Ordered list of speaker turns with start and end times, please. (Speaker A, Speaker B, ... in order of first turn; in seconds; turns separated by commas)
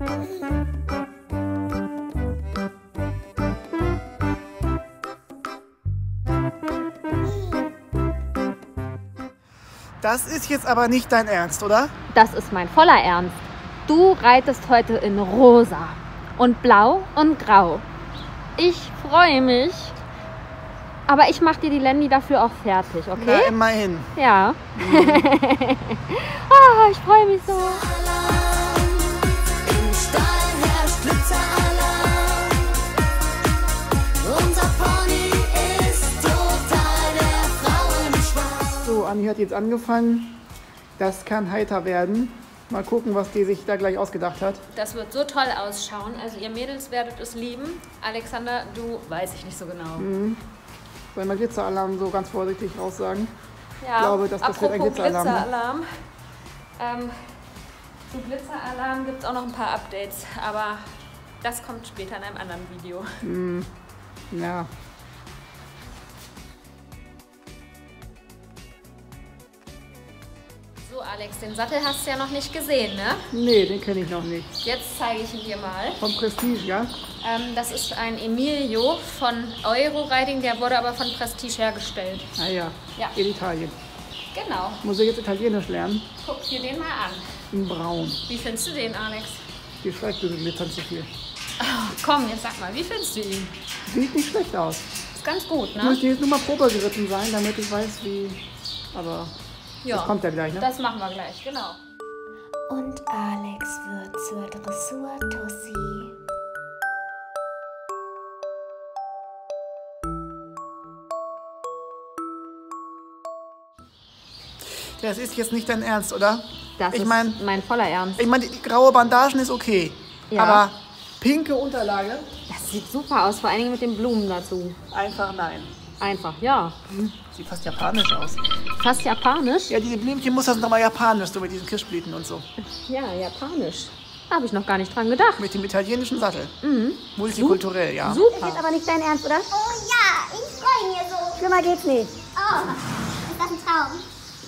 Speaker A: 10.0-11.9, Speaker B: 12.1-17.9, Speaker B: 18.6-20.0, Speaker B: 21.1-23.5, Speaker A: 23.2-24.1, Speaker B: 24.2-27.9, Speaker A: 24.8-25.3, Speaker C: 27.7-32.8, Speaker C: 34.2-38.9, Speaker A: 38.8-40.4, Speaker A: 41.0-44.6, Speaker B: 44.7-50.1, Speaker A: 50.0-50.4, Speaker A: 51.1-53.3, Speaker B: 53.8-55.9, Speaker A: 54.0-55.5, Speaker B: 56.8-57.3, Speaker B: 58.1-60.9, Speaker B: 61.4-63.2, Speaker A: 63.2-63.7, Speaker A: 64.3-64.7, Speaker B: 70.8-73.3, Speaker A: 73.3-74.5, Speaker B: 74.6-76.0, Speaker A: 76.0-76.9, Speaker B: 77.2-82.3, Speaker A: 82.4-83.8, Speaker B: 84.3-84.8, Speaker A: 84.8-86.1, Speaker B: 86.2-87.3, Speaker A: 87.5-88.2, Speaker B: 88.3-89.4, Speaker A: 89.8-91.1, Speaker B: 91.6-93.6, Speaker A: 93.9-94.9, Speaker B: 95.1-96.0, Speaker A: 95.8-98.4, Speaker A: 98.9-99.3, Speaker B: 99.8-101.8, Speaker A: 99.9-100.7, Speaker C: 102.7-106.1, Speaker A: 114.8-117.4, Speaker B: 116.8-118.2, Speaker A: 118.2-122.3, Speaker B: 120.3-120.7, Speaker B: 122.5-124.8, Speaker A: 124.9-125.7, Speaker B: 126.0-127.1, Speaker A: 127.3-128.4, Speaker B: 128.8-129.8, Speaker A: 129.7-132.5, Speaker B: 132.8-135.5, Speaker A: 135.4-136.5, Speaker B: 136.6-138.6, Speaker A: 137.2-138.2, Speaker D: 138.2-139.5, Speaker E: 139.5-141.4, Speaker D: 141.4-142.1, Speaker E: 142.4-144.0